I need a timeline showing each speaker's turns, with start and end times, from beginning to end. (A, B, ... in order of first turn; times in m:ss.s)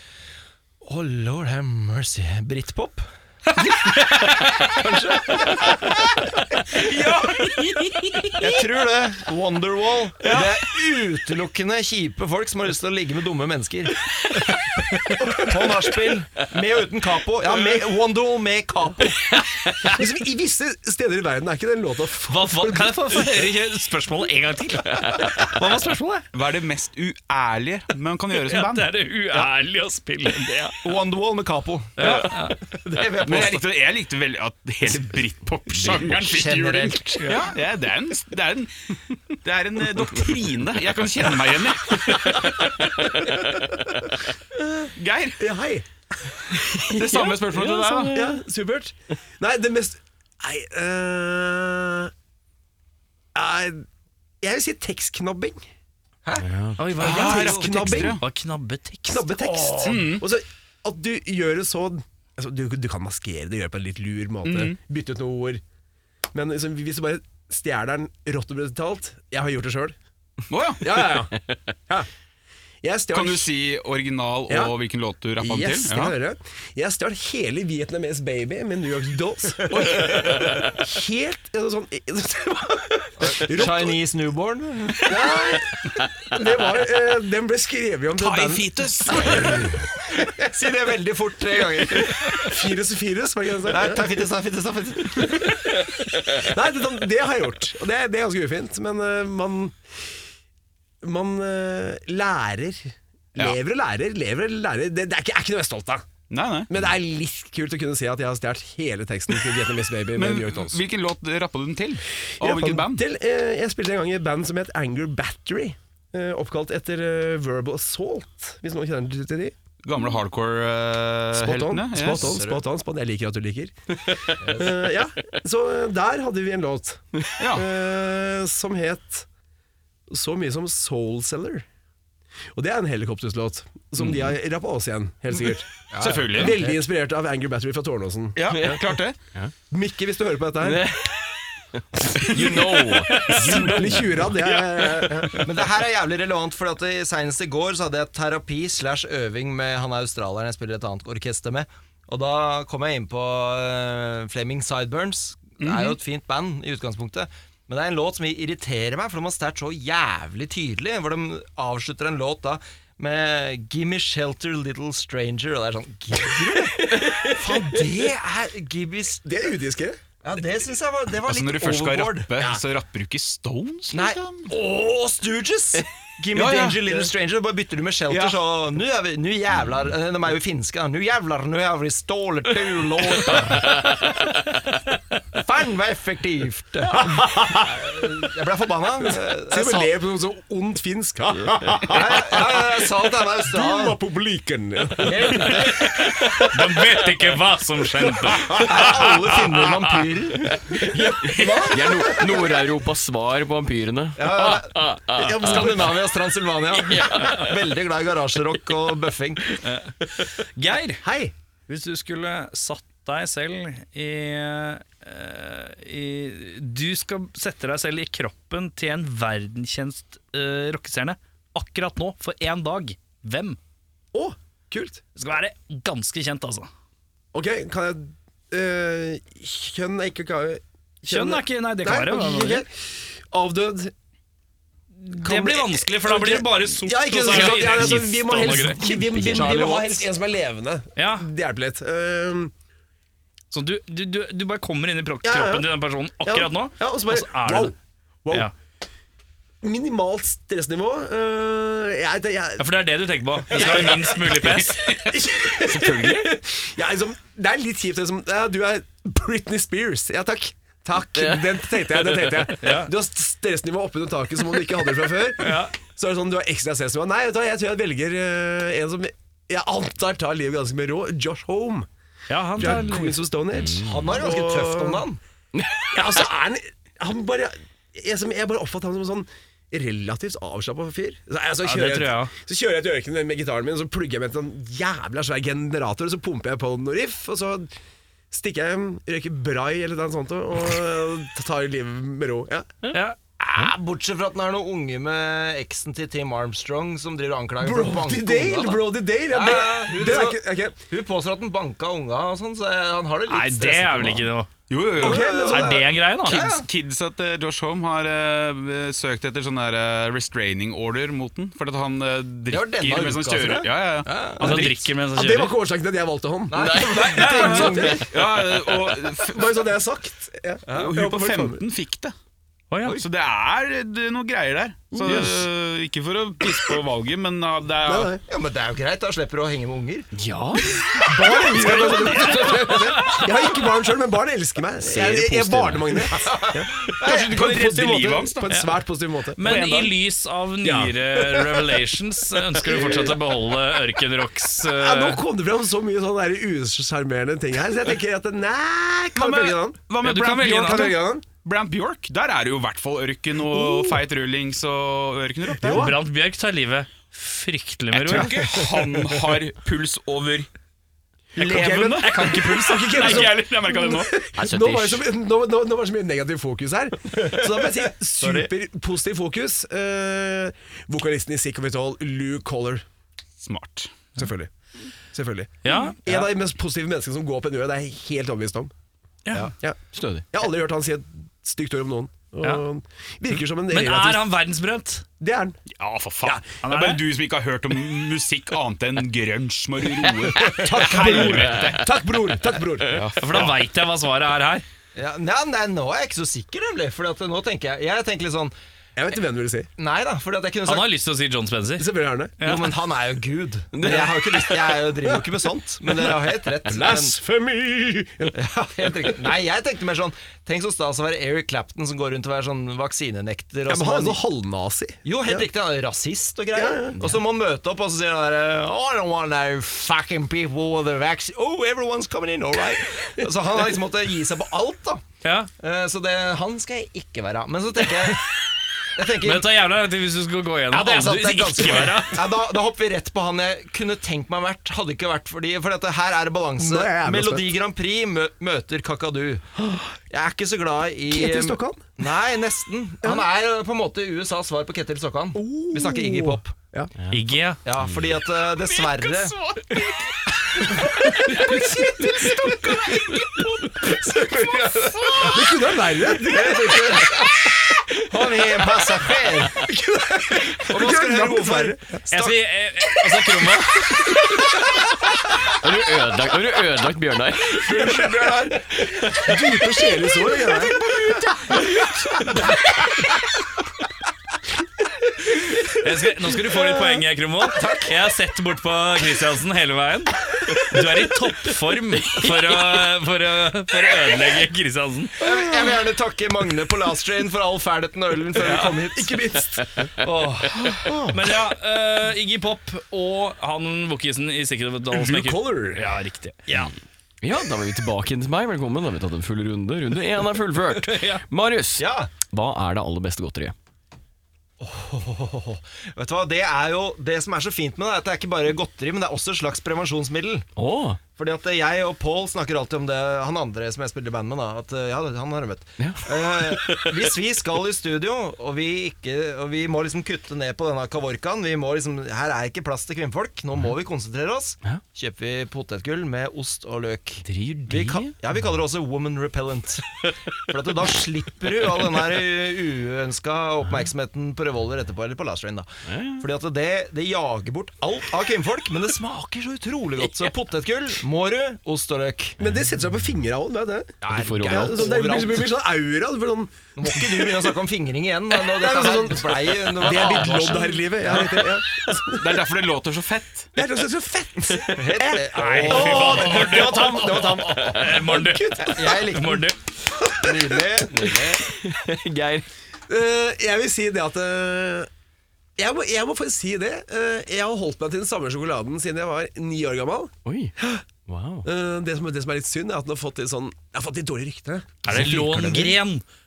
0:00.8-0:03.1 A
0:04.3-0:05.9 A
0:06.8-0:07.6 B
0:07.4-0:08.3 C
0:08.4-0:14.0 A
0:10.2-0:10.5 B
0:15.1-0:19.3 A
0:19.6-0:20.0 C
0:19.8-0:23.4 D
0:22.3-0:26.3 C
0:26.3-0:28.9 B
0:28.4-0:30.8 C
0:30.8-0:33.6 A
0:32.0-0:32.6 C
0:33.2-0:38.7 B
0:35.8-0:37.4 A
0:39.3-0:43.4 B
0:44.6-0:47.2 D
0:45.0-0:45.4 B
0:46.9-0:48.2 B
0:47.1-0:48.4 E
0:48.0-0:52.1 D
0:53.4-0:53.8 D
0:54.4-0:55.6 D
0:56.2-0:57.9 A
0:56.4-0:56.8 E
0:56.8-0:59.4 C
0:57.0-0:58.2 D
0:57.0-0:58.2 B
0:59.0-1:05.6 D
0:59.4-1:00.0 A
0:59.8-1:00.2 B
1:04.4-1:04.8 B
1:06.3-1:10.0 D
1:10.5-1:11.1 B
1:10.8-1:12.1 D
1:12.8-1:13.5 D
1:13.1-1:16.2 B
1:14.5-1:14.8 D
1:15.4-1:24.0 D
1:19.8-1:20.0 A
1:23.2-1:25.3 A
1:25.0-1:29.7 D
1:28.2-1:29.7 B
1:29.2-1:29.7 A
1:30.2-1:32.5 A
1:32.3-1:34.2 D
1:33.7-1:35.7 A
1:36.3-1:39.8 D
1:41.0-1:46.0 D
1:46.3-1:46.7 B
1:46.7-1:50.8 D
1:50.2-1:53.0 B
1:52.4-1:59.5 D
1:59.8-2:02.4 B
2:01.3-2:09.3 D
2:02.2-2:02.6 A
2:04.4-2:04.9 A
2:07.4-2:07.7 B
2:10.1-2:11.6 D
2:12.6-2:18.8 D
2:14.0-2:14.3 E
2:15.9-2:16.5 A
2:16.0-2:16.6 B
2:18.4-2:19.2 B
2:18.5-2:18.8 E
2:19.7-2:20.9 D
2:20.6-2:24.4 E
2:22.3-2:23.8 B
2:23.3-2:25.4 D
2:24.4-2:25.4 B
2:25.3-2:49.4 A
2:35.6-2:36.0 B
2:47.3-2:47.8 D
2:49.2-2:50.0 D
2:50.2-2:52.5 A
2:51.2-2:54.5 B
2:53.9-3:04.1 A
2:56.3-2:57.1 B
2:58.1-2:58.4 B
3:05.3-3:09.9 A
3:06.9-3:08.1 D
3:09.0-3:16.4 D
3:11.9-3:14.0 A
3:15.0-3:16.0 A
3:16.4-3:19.0 C
3:18.2-3:19.0 D
3:18.6-3:21.8 A
3:20.8-3:26.0 E
3:21.4-3:21.7 B
3:21.4-3:22.3 D
3:24.2-3:29.6 A
3:25.1-3:26.0 D
3:26.8-3:27.5 E
3:29.6-3:31.0 C
3:31.0-3:31.3 D
3:31.7-3:43.6 C
3:44.1-3:45.0 D
3:45.2-3:46.7 C
3:47.3-3:53.9 D
3:51.1-3:52.7 C
3:55.0-3:59.2 C
3:55.2-4:02.5 D
3:57.3-3:58.1 E
3:58.6-3:59.9 E
3:59.3-3:59.9 A
4:01.0-4:01.3 C
4:03.5-4:07.8 C
4:05.2-4:08.5 D
4:09.6-4:12.7 D
4:12.6-4:15.0 C
4:13.5-4:14.1 D
4:13.6-4:15.0 B
4:14.9-4:31.9 D
4:15.7-4:16.2 E
4:21.1-4:22.5 E
4:22.6-4:22.9 C
4:25.4-4:25.8 C
4:32.3-4:33.2 C
4:32.6-4:35.0 D
4:33.5-4:34.3 E
4:33.8-4:35.2 A
4:35.6-4:36.2 E
4:35.9-4:47.7 D
4:41.6-4:42.3 C
4:48.3-4:52.7 D
4:52.9-4:53.2 C
4:53.4-5:04.3 A
4:57.6-5:00.8 D
5:03.3-5:04.5 C
5:04.7-5:05.4 B
5:05.0-5:05.9 D
5:05.0-5:06.7 A
5:05.4-5:06.5 C
5:06.3-5:14.9 B
5:12.5-5:14.7 A
5:14.4-5:15.6 C
5:14.6-5:18.1 D
5:16.5-5:18.1 A
5:16.6-5:17.8 E
5:17.1-5:19.7 B
5:17.2-5:17.9 C
5:19.3-5:21.6 D
5:20.7-5:22.2 B
5:22.7-5:23.0 C
5:22.9-5:28.2 B
5:24.9-5:25.4 D
5:27.8-5:28.2 D
5:28.2-5:30.1 A
5:30.1-5:30.8 E
5:31.0-5:39.5 D
5:31.6-5:33.3 C
5:31.6-5:32.5 B
5:34.8-5:35.9 E
5:36.2-5:37.4 A
5:37.0-5:38.5 B
5:38.5-5:38.8 C
5:39.4-5:45.2 C
5:39.4-5:39.9 B
5:40.6-5:41.8 D
5:42.4-5:43.2 D
5:44.6-5:49.8 D
5:49.1-5:56.0 B
5:50.0-5:51.0 C
5:50.5-5:51.2 D
5:53.5-5:54.0 D
5:55.6-5:56.0 D
5:55.6-5:58.4 C
5:57.9-6:00.5 B
5:58.1-5:58.6 D
6:01.4-6:03.3 C
6:01.4-6:04.1 B
6:01.4-6:12.8 D
6:04.4-6:05.1 E
6:07.1-6:08.5 A
6:13.4-6:14.0 B
6:14.2-6:14.5 D
6:15.1-6:18.7 D
6:15.6-6:16.0 C
6:19.3-6:19.5 C
6:19.9-6:20.2 E
6:20.3-6:24.3 D
6:23.7-6:25.0 C
6:25.2-6:25.6 D
6:25.8-6:31.9 B
6:26.6-6:27.0 C
6:30.4-6:33.5 D
6:32.9-6:33.6 B
6:33.2-6:34.6 C
6:35.0-6:38.5 A
6:39.0-6:39.7 D
6:39.8-6:40.9 A
6:40.6-6:42.7 C
6:41.8-6:42.4 D
6:42.4-6:47.2 A
6:43.8-6:44.6 E
6:43.8-6:45.2 D
6:46.6-6:48.4 D
6:48.3-6:54.2 A
6:53.7-6:55.5 D
6:55.0-7:05.0 A
6:56.5-6:57.0 D
7:05.2-7:05.5 C
7:05.6-7:08.3 A
7:09.0-7:09.6 A
7:09.2-7:12.4 C
7:10.7-7:19.5 A
7:16.6-7:17.5 D
7:19.6-7:20.0 D
7:20.1-7:26.6 A
7:21.1-7:21.9 D
7:25.4-7:26.9 D
7:27.1-7:27.6 C
7:27.6-7:29.4 A
7:27.8-7:28.2 E
7:28.6-7:35.6 B
7:30.8-7:37.5 D
7:36.3-7:37.1 A
7:38.0-7:39.7 A
7:39.6-7:42.4 D
7:40.6-7:41.8 A
7:42.1-7:44.0 C
7:44.2-7:44.4 D
7:45.5-7:48.2 E
7:47.5-7:51.0 D
7:55.7-8:05.2 C
7:56.5-7:57.0 D
8:05.2-8:09.2 A
8:05.2-8:05.8 D
8:08.4-8:09.9 D
8:08.4-8:08.7 C
8:10.0-8:16.7 C
8:10.6-8:11.0 E
8:10.8-8:11.2 D
8:14.9-8:15.8 D
8:17.2-8:23.6 E
8:20.7-8:21.2 C
8:21.8-8:22.1 A
8:24.6-8:30.5 A
8:30.6-8:31.0 E
8:31.2-9:02.4 A
8:35.8-8:37.0 E
8:47.2-8:48.2 E
8:55.8-8:56.2 E
9:02.4-9:07.4 D
9:04.0-9:05.6 A
9:04.1-9:05.1 E
9:06.8-9:11.4 A
9:08.4-9:12.4 D
9:12.2-9:13.5 B
9:13.6-9:19.0 D
9:14.7-9:18.0 A
9:15.3-9:19.6 C
9:18.6-9:19.5 A
9:20.1-9:21.5 A
9:20.8-9:22.5 E
9:22.9-9:24.9 D
9:25.6-9:30.8 D
9:30.2-9:30.5 E
9:31.1-9:31.5 E
9:31.4-9:35.7 D
9:34.8-9:36.0 C
9:34.9-9:35.7 E